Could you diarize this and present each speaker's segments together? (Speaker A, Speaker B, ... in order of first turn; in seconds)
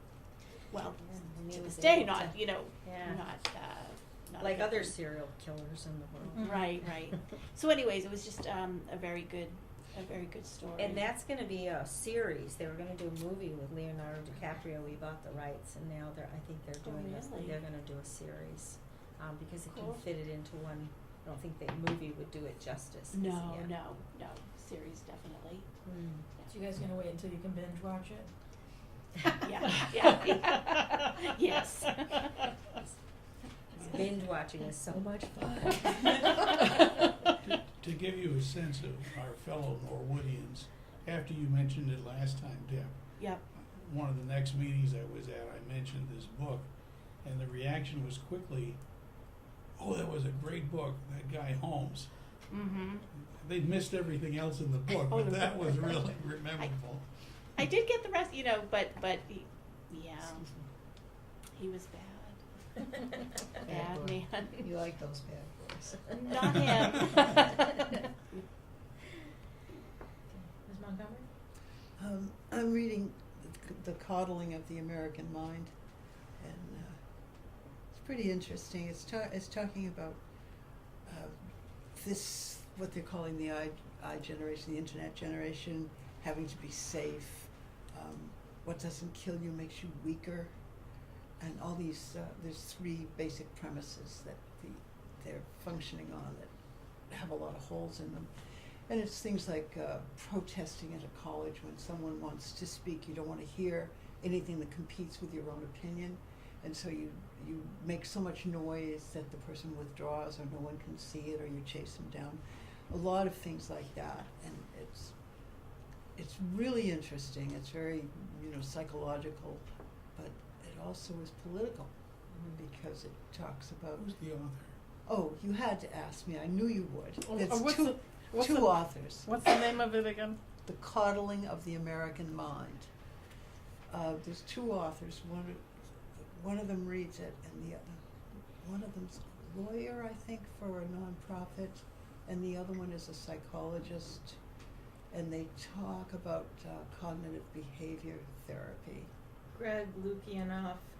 Speaker A: 0.7-4.9, 6.3-11.1, 16.8-17.6, 19.7-20.0, 23.1-25.7, 29.2-32.5, 33.7-34.0, 43.2-43.4, 52.5-53.0, 57.5-60.5, 61.5-62.4, 63.5-64.6, 66.1-67.7
Speaker B: 1.0-3.2, 4.4-6.5, 10.8-23.7, 25.9-26.2, 33.8-36.8
Speaker C: 6.4-6.7, 26.5-28.3, 36.0-36.4, 70.4-71.3, 149.6-150.5
Speaker D: 37.4-48.8, 49.8-52.1, 53.2-57.0, 124.0-124.8
Speaker E: 55.4-56.0, 127.2-130.4
Speaker F: 63.7-66.0, 72.0-75.7, 76.4-77.0, 77.9-80.2, 81.0-81.3, 81.9-90.5, 91.4-96.5, 97.1-98.3, 98.9-115.1, 116.2-119.6, 120.2-121.9, 122.4-124.1, 125.0-129.3, 130.6-132.9, 133.9-138.0, 138.6-144.4, 145.1-149.1